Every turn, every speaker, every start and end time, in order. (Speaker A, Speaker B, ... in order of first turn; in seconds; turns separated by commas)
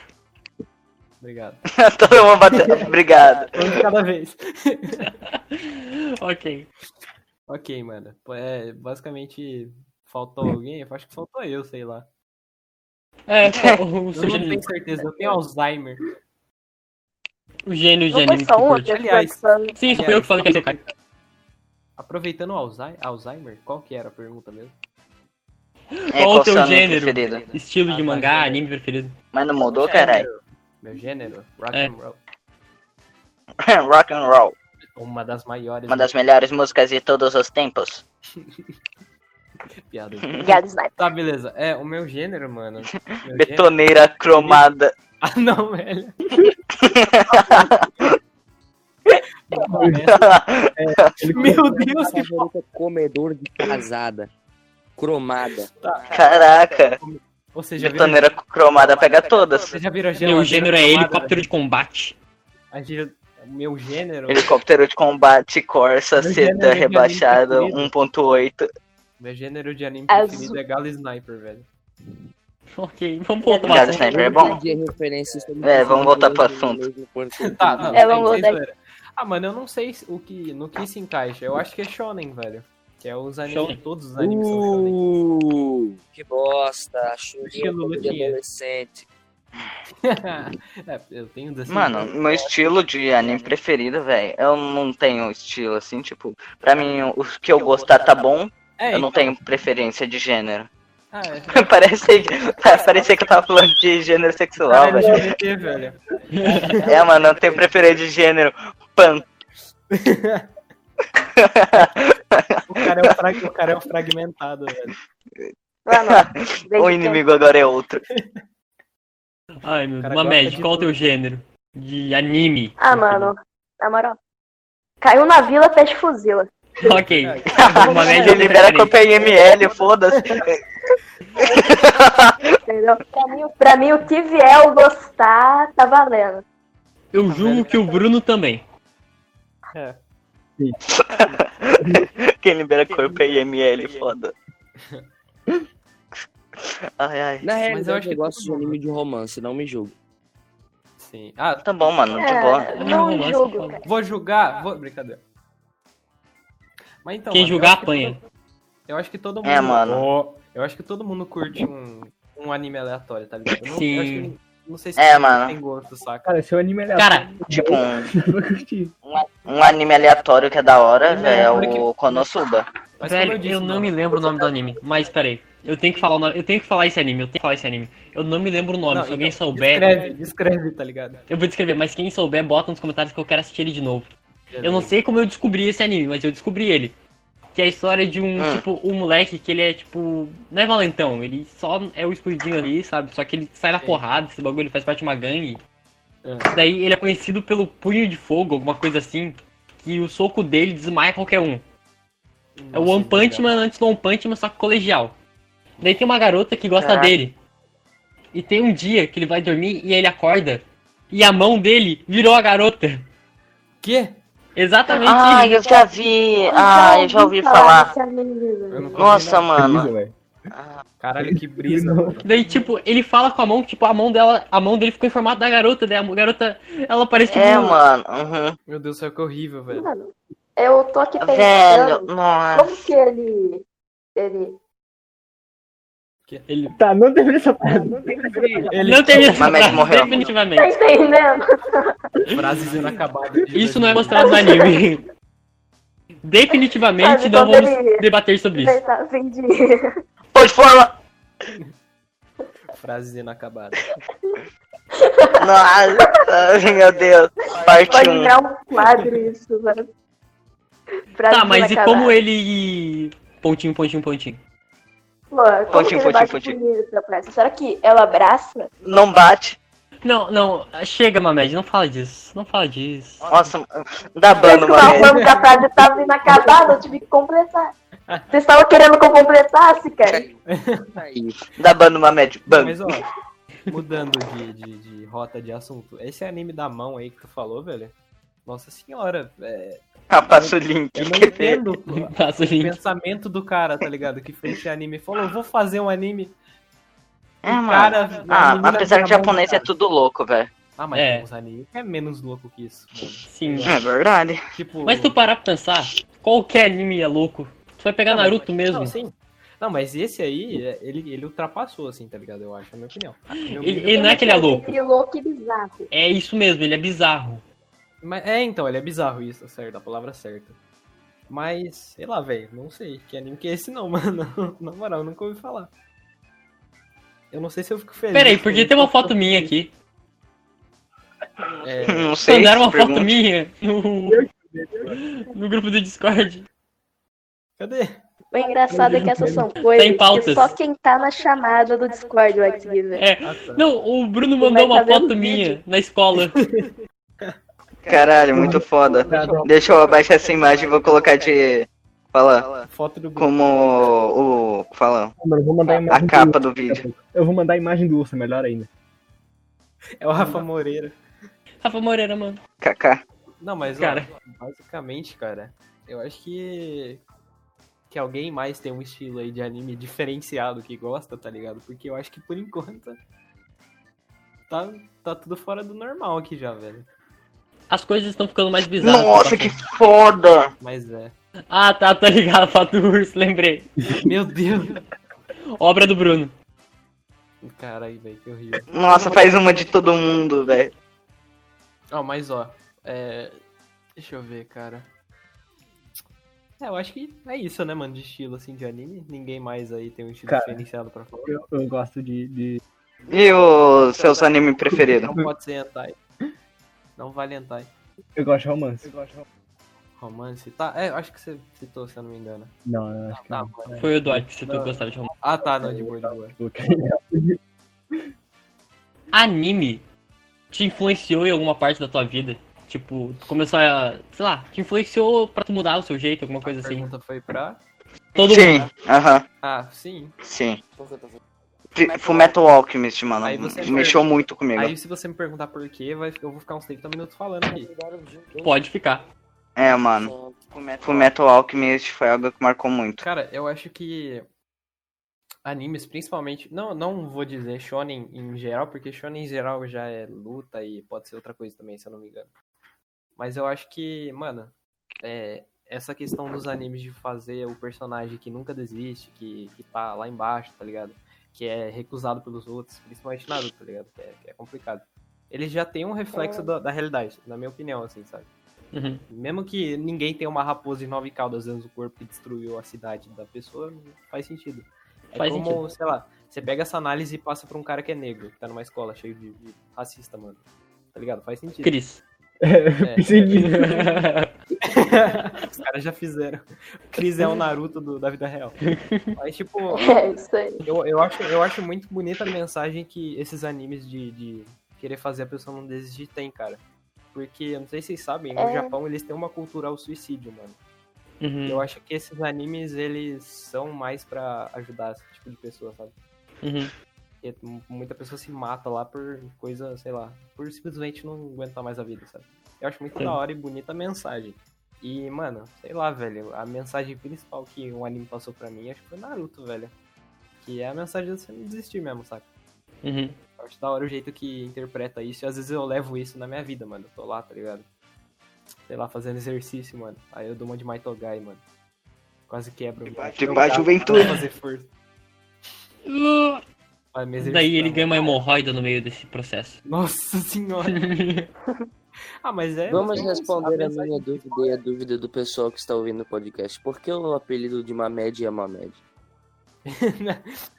Speaker A: 1.2-2.9, Speaker B: 1.7-3.8, Speaker A: 3.5-5.1, Speaker C: 5.0-6.7, Speaker A: 7.5-12.1, Speaker C: 13.3-14.7, Speaker B: 13.4-13.8, Speaker A: 14.1-16.0, Speaker C: 17.6-19.0, Speaker D: 18.1-19.8, Speaker A: 18.9-20.9, Speaker C: 19.8-20.8, Speaker A: 22.0-24.8, Speaker C: 25.9-29.1, Speaker B: 26.1-27.5, Speaker A: 27.9-28.6, Speaker B: 29.3-30.2, Speaker A: 29.6-32.2, Speaker B: 33.6-34.5, Speaker A: 35.0-36.1, Speaker B: 35.9-38.0, Speaker A: 39.9-43.8, Speaker D: 40.4-41.0, Speaker B: 42.9-44.9, Speaker A: 44.3-44.7, Speaker A: 45.2-46.2, Speaker B: 46.8-48.1, Speaker A: 49.5-50.3, Speaker E: 49.7-50.1, Speaker B: 50.1-51.2, Speaker E: 50.8-51.9, Speaker A: 51.3-52.5, Speaker F: 51.8-54.3, Speaker F: 55.0-55.7, Speaker A: 55.8-58.3, Speaker B: 56.1-57.0, Speaker B: 57.8-59.8, Speaker A: 59.6-61.4, Speaker C: 60.2-62.1, Speaker A: 62.7-64.5, Speaker B: 64.3-68.7, Speaker A: 66.2-67.9, Speaker A: 69.2-71.7, Speaker D: 70.1-70.6, Speaker C: 72.7-74.1, Speaker D: 73.4-74.8, Speaker B: 73.6-74.6, Speaker F: 74.0-78.3, Speaker B: 75.6-76.8, Speaker A: 77.4-85.0, Speaker D: 77.9-78.6, Speaker C: 83.5-83.8, Speaker F: 84.2-89.1, Speaker A: 87.4-88.4, Speaker A: 90.0-92.3, Speaker B: 91.7-100.7, Speaker A: 98.8-99.4, Speaker A: 101.1-101.7, Speaker B: 101.5-105.3, Speaker A: 104.6-107.9, Speaker C: 106.3-106.8, Speaker B: 106.7-109.2, Speaker A: 109.9-110.5, Speaker B: 111.4-112.6, Speaker A: 112.7-114.9, Speaker D: 115.8-117.2, Speaker B: 115.9-118.0, Speaker C: 119.6-123.3, Speaker A: 120.0-121.0, Speaker D: 122.8-124.2, Speaker D: 125.0-126.5, Speaker C: 126.8-128.9, Speaker A: 126.9-130.4, Speaker B: 127.5-130.6, Speaker D: 127.8-128.3, Speaker B: 131.4-132.4, Speaker D: 132.7-136.4, Speaker C: 137.1-138.6, Speaker A: 137.2-138.0, Speaker A: 139.7-140.0, Speaker B: 140.9-144.3, Speaker E: 141.8-142.1, Speaker A: 144.8-145.0, Speaker B: 146.6-147.5, Speaker F: 147.4-149.9, Speaker A: 147.6-148.8, Speaker A: 151.0-152.0, Speaker B: 151.6-152.7, Speaker D: 152.2-153.8, Speaker C: 152.7-153.8, Speaker A: 153.8-155.2, Speaker A: 157.0-158.2, Speaker C: 157.3-158.2, Speaker A: 158.9-166.3, Speaker B: 159.4-160.1, Speaker C: 163.6-164.3, Speaker B: 165.0-165.6, Speaker E: 166.2-168.9, Speaker C: 166.9-167.3, Speaker B: 167.5-168.1, Speaker B: 169.1-172.7, Speaker A: 171.1-172.3, Speaker A: 173.0-174.5, Speaker C: 173.0-180.1, Speaker A: 178.9-181.2, Speaker C: 181.3-184.1, Speaker A: 184.5-185.0, Speaker C: 184.6-186.9, Speaker C: 187.5-195.6, Speaker B: 188.4-188.6, Speaker A: 196.2-196.5, Speaker C: 196.5-201.6, Speaker A: 202.6-203.6, Speaker C: 202.7-205.2, Speaker C: 205.8-207.3, Speaker B: 206.8-207.1, Speaker C: 208.3-213.1, Speaker A: 213.8-214.2, Speaker C: 214.6-215.6, Speaker B: 214.9-217.9, Speaker D: 216.4-219.1, Speaker A: 218.7-219.6, Speaker B: 219.0-219.9, Speaker E: 219.6-220.1, Speaker B: 220.5-220.8, Speaker A: 221.0-222.7, Speaker E: 221.2-222.2, Speaker C: 222.2-227.8, Speaker B: 227.3-228.6, Speaker A: 228.7-229.9, Speaker D: 229.7-233.6, Speaker B: 231.2-232.9, Speaker D: 234.2-234.6, Speaker C: 236.5-236.7, Speaker E: 236.8-238.7, Speaker A: 238.6-240.2, Speaker C: 238.8-240.7, Speaker B: 239.4-240.2, Speaker D: 240.6-241.9, Speaker A: 242.3-244.4, Speaker C: 243.5-245.0, Speaker D: 244.1-244.8, Speaker C: 246.2-248.8, Speaker D: 247.0-249.9, Speaker B: 250.3-251.0, Speaker A: 252.7-253.8, Speaker D: 255.0-255.4, Speaker B: 255.4-258.4, Speaker D: 257.6-259.9, Speaker A: 259.0-259.2, Speaker D: 261.1-262.2, Speaker C: 261.3-264.4, Speaker D: 265.3-268.7, Speaker B: 265.7-266.6, Speaker B: 268.8-269.6, Speaker C: 270.0-273.3, Speaker B: 273.2-275.2, Speaker D: 274.4-277.7, Speaker A: 274.6-275.6, Speaker A: 276.3-276.7, Speaker D: 278.3-280.2, Speaker F: 280.1-280.4, Speaker A: 280.5-280.9, Speaker F: 280.9-281.4, Speaker B: 281.6-282.9, Speaker A: 282.5-283.0, Speaker A: 283.7-296.4, Speaker B: 290.1-291.6, Speaker C: 291.9-292.8, Speaker B: 297.4-300.5, Speaker A: 297.4-299.7, Speaker A: 300.8-303.8, Speaker C: 300.9-301.3, Speaker C: 303.3-303.8, Speaker B: 303.6-304.4, Speaker A: 304.5-305.2, Speaker C: 304.8-308.9, Speaker A: 308.1-314.5, Speaker C: 313.5-314.7, Speaker D: 313.9-315.9, Speaker C: 315.9-317.4, Speaker A: 318.0-320.6, Speaker A: 321.3-325.7, Speaker A: 327.3-329.5, Speaker C: 328.1-329.7, Speaker A: 331.6-332.2, Speaker B: 331.9-333.1, Speaker C: 332.2-334.2, Speaker E: 334.1-335.0, Speaker C: 334.9-336.4, Speaker A: 337.6-338.0, Speaker D: 338.3-343.0, Speaker E: 338.7-339.5, Speaker C: 339.7-340.5, Speaker C: 342.9-346.4, Speaker A: 343.2-343.7, Speaker D: 344.4-345.6, Speaker A: 346.3-347.4, Speaker B: 347.8-352.6, Speaker A: 347.9-348.5, Speaker E: 348.3-349.5, Speaker A: 349.0-351.0, Speaker A: 352.6-353.9, Speaker B: 353.2-355.1, Speaker E: 355.2-358.7, Speaker B: 355.9-356.8, Speaker A: 360.0-361.0, Speaker C: 361.6-362.4, Speaker B: 362.6-363.0, Speaker A: 363.4-367.0, Speaker C: 363.6-364.1, Speaker A: 367.9-373.0, Speaker A: 374.5-376.9, Speaker C: 377.7-379.5, Speaker B: 378.8-380.5, Speaker A: 380.6-381.1, Speaker C: 381.5-383.7, Speaker A: 384.0-384.8, Speaker C: 385.6-386.3, Speaker A: 387.4-388.7, Speaker B: 388.7-390.7, Speaker A: 391.9-393.4, Speaker A: 394.0-394.9, Speaker A: 396.6-401.4, Speaker E: 400.3-400.6, Speaker E: 401.3-402.6, Speaker A: 403.1-405.9, Speaker B: 403.1-405.1, Speaker A: 406.9-407.7, Speaker E: 408.1-409.0, Speaker A: 410.0-412.5, Speaker E: 412.6-413.8, Speaker A: 413.1-413.9, Speaker C: 413.8-415.1, Speaker A: 414.4-416.4, Speaker E: 415.6-417.4, Speaker C: 419.1-419.8, Speaker C: 420.5-426.9, Speaker A: 426.4-427.6, Speaker C: 428.2-428.6, Speaker B: 428.2-429.2, Speaker A: 429.4-430.1, Speaker B: 430.2-430.6, Speaker F: 430.7-431.2, Speaker B: 431.8-434.7, Speaker F: 431.9-432.3, Speaker A: 433.2-437.7, Speaker F: 437.5-438.6, Speaker C: 438.4-439.1, Speaker B: 439.6-443.0, Speaker F: 440.0-440.5, Speaker A: 443.0-444.3, Speaker A: 445.4-452.3, Speaker A: 453.2-468.3, Speaker D: 466.1-466.5, Speaker C: 468.7-469.0, Speaker A: 469.1-480.4, Speaker C: 475.1-475.6, Speaker A: 480.9-481.8, Speaker C: 481.6-482.0, Speaker E: 482.4-483.7, Speaker A: 482.8-483.8, Speaker C: 483.4-484.3, Speaker A: 484.6-488.6, Speaker C: 488.7-489.1, Speaker A: 489.1-489.9, Speaker D: 489.7-490.6, Speaker A: 490.6-500.6, Speaker D: 498.4-498.8, Speaker C: 501.2-501.6, Speaker A: 501.4-505.9, Speaker C: 506.4-506.7, Speaker A: 507.2-519.7, Speaker A: 520.4-522.3, Speaker C: 522.8-523.2, Speaker A: 523.4-527.6, Speaker A: 528.6-531.4, Speaker A: 532.3-534.7, Speaker B: 532.9-534.1, Speaker C: 533.9-534.2, Speaker C: 535.9-536.4, Speaker A: 536.9-538.2, Speaker C: 537.2-539.6, Speaker A: 539.6-540.9, Speaker C: 540.7-541.3, Speaker A: 542.2-544.6, Speaker F: 542.7-548.8, Speaker A: 549.6-550.3